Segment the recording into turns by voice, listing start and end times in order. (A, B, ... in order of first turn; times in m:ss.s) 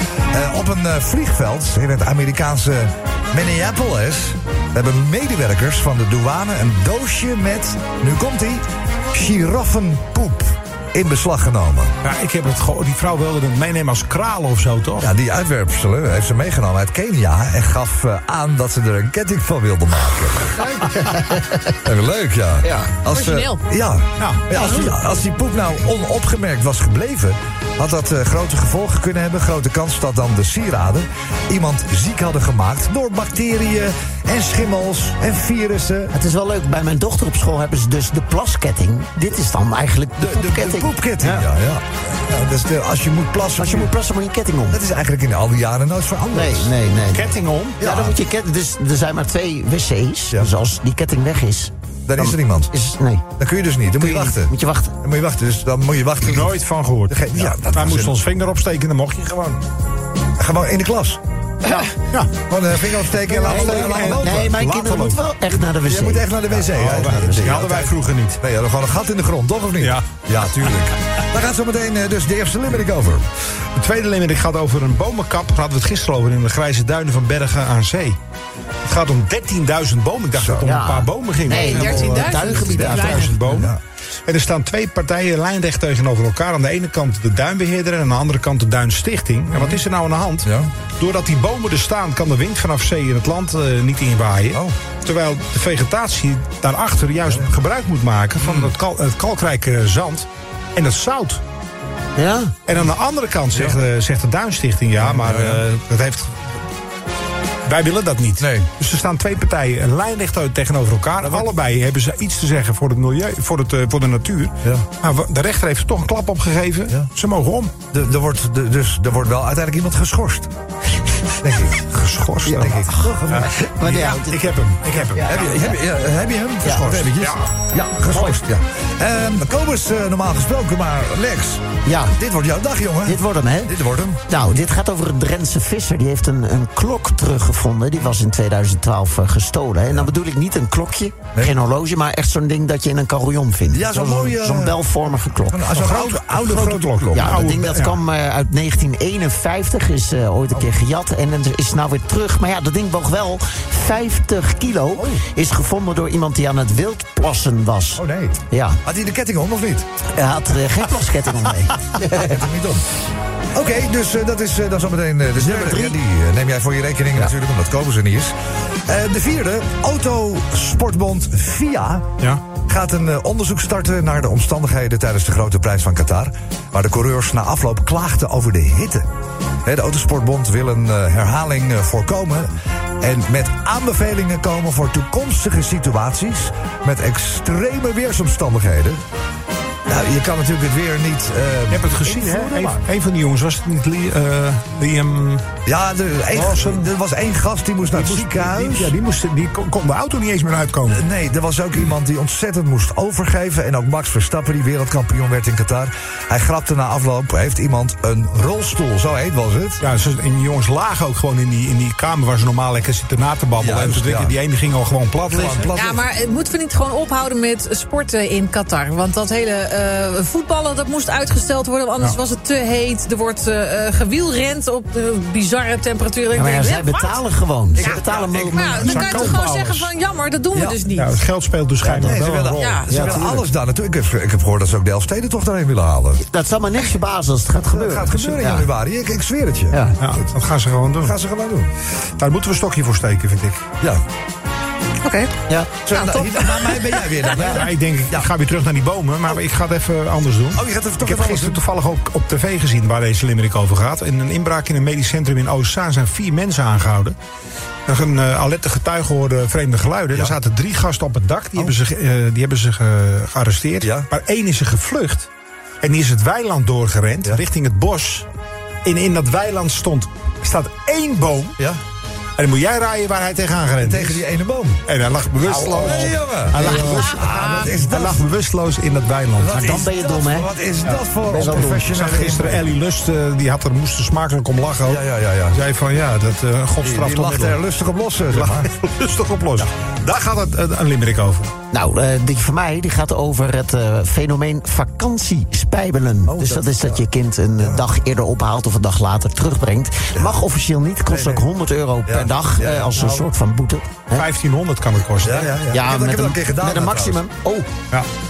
0:00.3-0:11.9 A
0:12.0-0:15.1 B
0:15.0-0:20.7 A
0:20.6-0:21.6 C
0:21.8-0:36.1 A
0:22.6-0:23.0 C
0:23.0-0:23.6 D
0:24.2-0:24.9 B
0:36.1-0:41.4 C
0:40.2-0:43.9 A
0:43.6-0:44.8 C
0:44.7-0:46.7 A
0:46.3-0:53.2 C
0:47.1-0:47.8 B
0:47.8-0:48.2 A
0:52.0-0:52.7 A
0:53.4-0:58.2 A
0:54.0-0:54.9 C
0:56.2-0:59.6 B
1:00.4-1:01.2 A
1:01.6-1:01.9 C
1:02.1-1:05.2 B
1:02.5-1:04.5 A
1:03.5-1:07.8 C
1:05.8-1:13.3 A
1:06.6-1:08.4 B
1:09.8-1:10.1 B
1:13.8-1:18.2 B
1:18.8-1:23.7 B
1:20.3-1:20.7 A
1:20.6-1:23.4 C
1:21.5-1:23.5 D
1:23.5-1:23.8 A
1:24.2-1:41.4 B
1:29.5-1:29.8 A
1:30.4-1:30.7 A
1:34.5-1:34.8 A
1:38.4-1:38.7 A
1:42.2-1:42.5 C
1:42.6-1:46.6 B
1:43.5-1:43.8 A
1:45.0-1:45.6 A
1:47.6-1:57.7 B
1:48.4-1:48.7 A
1:51.2-1:51.5 A
1:57.9-2:00.5 A
2:01.4-2:01.9 A
2:01.9-2:05.4 B
2:02.4-2:05.8 C
2:02.5-2:03.5 A
2:05.3-2:14.2 A
2:06.8-2:07.5 B
2:08.1-2:08.4 C
2:11.8-2:12.1 C
2:13.0-2:13.7 C
2:14.3-2:25.8 C
2:23.7-2:27.3 A
2:25.7-2:28.0 B
2:27.1-2:38.8 C
2:35.0-2:35.2 A
2:38.0-2:39.9 A
2:40.1-2:42.4 C
2:42.2-2:42.8 A
2:43.5-2:48.3 A
2:45.4-2:45.9 C
2:48.9-2:59.1 A
2:59.6-3:09.0 A
3:09.9-3:12.8 A
3:11.7-3:15.5 B
3:15.6-3:18.9 A
3:16.3-3:16.9 B
3:17.9-3:21.0 B
3:20.9-3:29.8 A
3:29.8-3:35.7 B
3:33.6-3:34.4 A
3:35.3-3:36.0 A
3:35.7-3:47.2 D
3:46.3-3:48.9 C
3:47.8-3:49.4 A
3:48.5-3:51.2 D
3:48.8-3:49.9 B
3:50.5-3:50.8 A
3:50.9-3:52.8 B
3:51.8-3:52.1 C
3:52.0-3:56.2 A
3:52.5-3:53.2 D
3:52.9-3:53.4 C
3:56.2-3:58.7 C
3:57.7-3:59.8 A
3:59.7-4:00.0 C
4:00.0-4:01.2 B
4:01.0-4:01.7 A
4:02.2-4:03.6 B
4:05.0-4:05.3 D
4:05.8-4:08.3 A
4:05.9-4:06.9 D
4:07.4-4:17.2 B
4:10.5-4:11.6 A
4:17.8-4:25.3 B
4:23.8-4:24.1 A
4:25.8-4:28.3 B
4:28.8-4:31.6 B
4:32.4-4:34.2 B
4:33.8-4:34.8 A
4:34.9-4:39.9 B
4:35.5-4:38.2 A
4:36.8-4:37.7 D
4:39.4-4:42.7 A
4:39.6-4:40.5 C
4:40.8-4:47.6 B
4:41.3-4:41.7 C
4:44.8-4:45.6 A
4:46.8-4:48.7 A
4:48.3-4:51.5 B
4:51.7-5:04.3 C
4:56.3-4:57.0 A
4:57.6-4:57.9 A
5:01.1-5:01.4 A
5:02.0-5:03.2 A
5:04.1-5:05.5 B
5:05.2-5:07.2 A
5:05.7-5:07.7 C